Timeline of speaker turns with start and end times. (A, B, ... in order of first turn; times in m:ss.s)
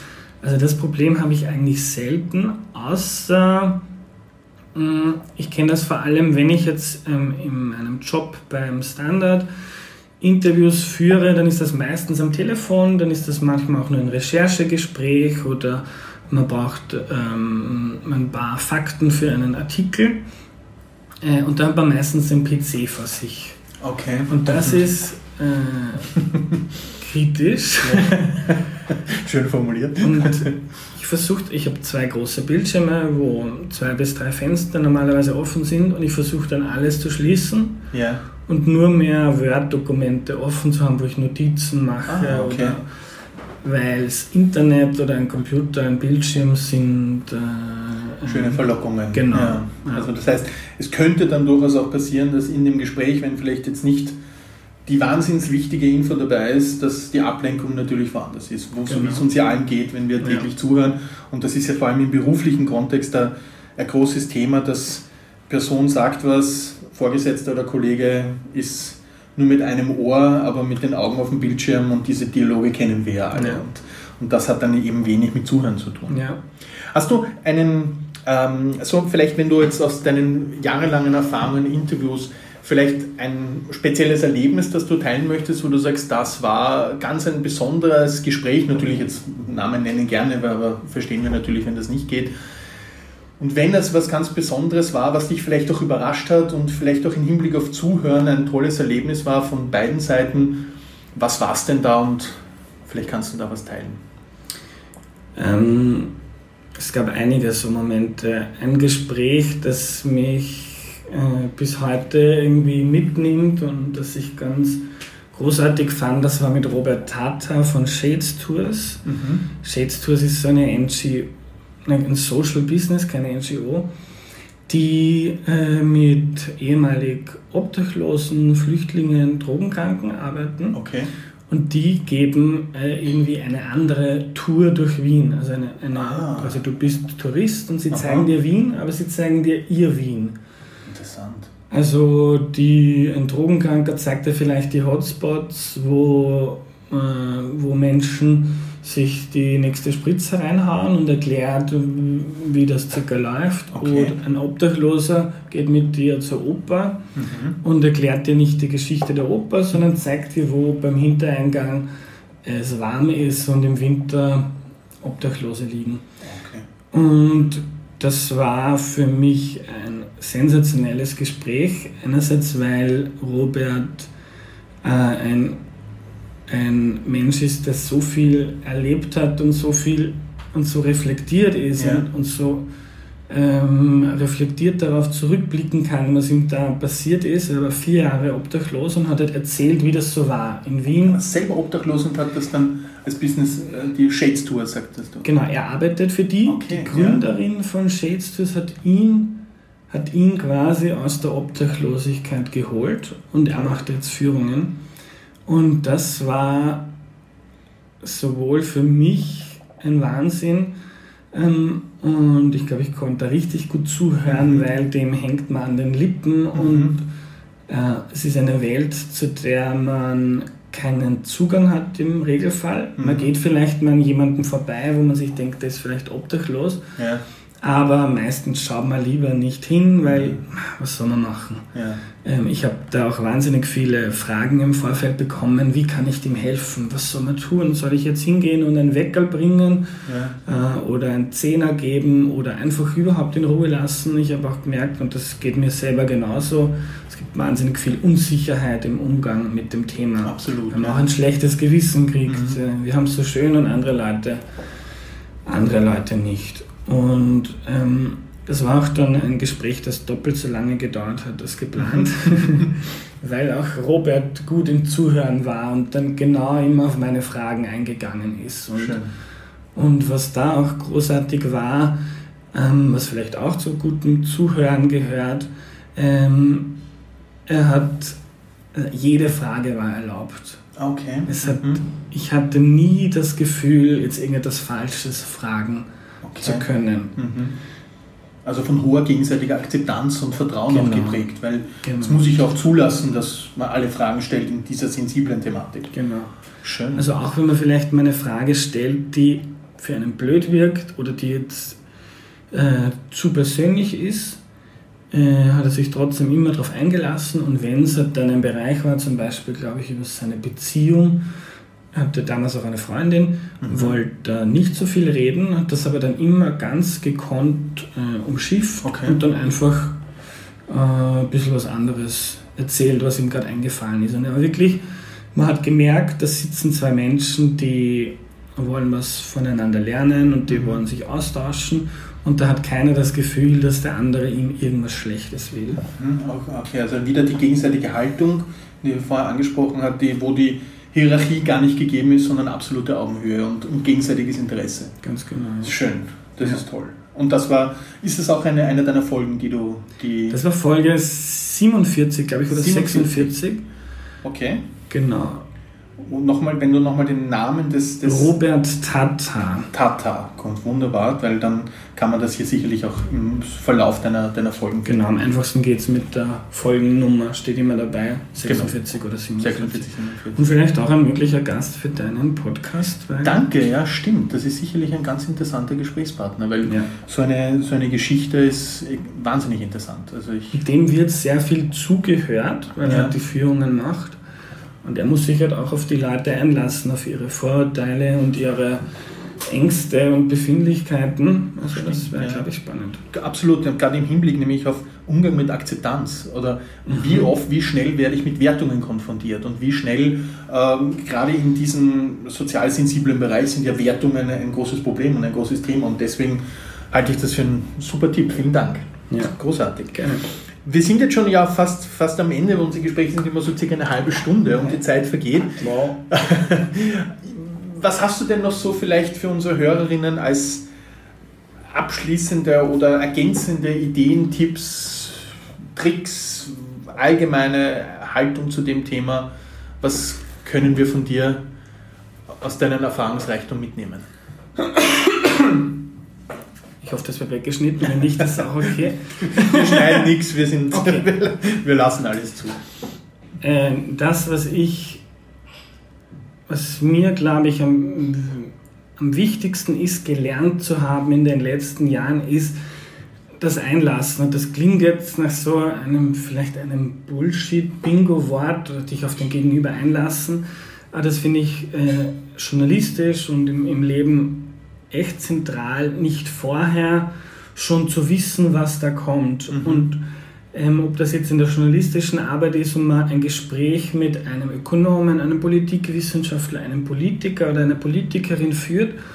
0:00.4-0:03.8 A
0:04.7-0:09.5 A
0:10.2-0:20.2 A
0:21.2-0:23.6 A
0:23.8-0:24.8 B
0:24.3-0:26.2 A
0:26.2-0:26.6 B
0:27.0-0:28.5 A
0:27.8-0:30.6 B
0:30.0-0:37.8 A
0:37.9-0:38.2 B
0:38.5-0:42.8 A
0:42.0-0:42.8 B
0:43.6-0:50.1 A
0:48.3-0:54.2 B
0:54.8-1:16.2 B
0:58.9-0:59.3 A
1:13.3-1:13.6 A
1:16.1-1:16.4 A
1:16.8-1:32.3 B
1:33.4-1:44.0 B
1:45.4-1:46.1 A
1:46.8-1:59.0 A
1:59.0-1:59.4 B
1:59.6-2:01.3 A
2:01.8-2:03.9 A
2:04.7-2:10.8 A
2:10.7-2:11.1 B
2:11.5-2:20.4 A
2:15.9-2:16.6 B
2:17.9-2:18.3 B
2:20.9-2:21.5 B
2:21.7-2:37.0 A
2:33.7-2:34.2 B
2:37.2-2:37.6 B
2:37.6-2:41.9 A
2:42.4-2:46.0 A
2:46.2-2:46.7 B
2:46.9-2:54.1 A
2:54.8-2:55.6 A
2:56.5-3:02.7 A
3:01.8-3:02.0 B
3:03.3-3:11.2 A
3:11.0-3:15.2 B
3:15.2-3:24.7 A
3:16.4-3:17.2 B
3:25.5-3:26.9 A
3:28.0-3:30.7 A
3:31.3-3:37.0 A
3:34.3-3:34.6 B
3:36.5-3:37.0 B
3:37.7-3:46.8 A
3:43.0-3:43.2 B
3:47.0-3:47.2 B
3:47.6-3:51.7 A
3:50.0-3:50.4 B
3:51.7-3:52.0 B
3:52.2-3:59.9 A
4:00.0-4:00.4 B
4:00.4-4:14.4 A
4:10.2-4:11.1 B
4:12.3-4:12.6 B
4:15.4-4:29.0 A
4:21.8-4:22.7 B
4:28.8-4:29.1 B
4:29.7-4:32.0 A
4:32.5-4:36.7 A
4:37.5-4:38.2 A
4:38.7-4:40.6 A
4:40.8-4:41.8 B
4:41.3-4:45.9 A
4:46.2-4:47.6 B
4:46.4-4:47.2 A
4:48.4-4:55.9 B
4:50.7-4:51.2 A
4:51.8-4:52.2 A
4:55.9-4:56.3 A
4:56.6-4:57.0 B
4:56.9-5:01.8 A
5:02.5-5:04.4 A
5:05.1-5:11.2 A
5:11.9-5:20.0 A
5:13.6-5:14.0 B
5:18.8-5:19.2 B
5:20.7-5:24.8 A
5:25.3-5:35.9 A
5:30.5-5:30.8 B
5:36.0-5:44.9 B
5:45.0-5:45.8 A
5:45.6-5:50.4 B
5:50.3-5:53.6 A
5:52.5-5:53.3 B
5:54.2-5:54.6 B
5:54.9-5:55.4 A
5:56.0-5:58.3 B
5:58.0-5:59.7 A
5:59.7-6:05.0 B
6:04.8-6:13.4 A
6:08.4-6:08.7 B
6:09.4-6:10.4 B
6:13.2-6:20.5 B
6:16.6-6:16.9 A
6:20.5-6:24.2 A
6:22.8-6:23.1 B
6:24.8-6:28.8 A
6:29.4-6:33.0 A
6:31.6-6:32.4 B
6:33.1-7:00.6 B
6:36.8-6:37.3 A
6:49.1-6:49.3 A
6:49.9-6:50.3 A
6:55.6-6:56.0 A
7:01.7-7:11.4 B
7:12.3-7:14.0 B
7:14.6-7:15.6 A
7:16.8-7:20.1 A
7:18.2-7:18.4 B
7:19.2-7:22.6 B
7:20.7-7:21.1 A
7:23.4-7:25.0 A
7:26.5-7:32.6 A
7:33.4-7:59.0 A
7:49.5-7:49.9 B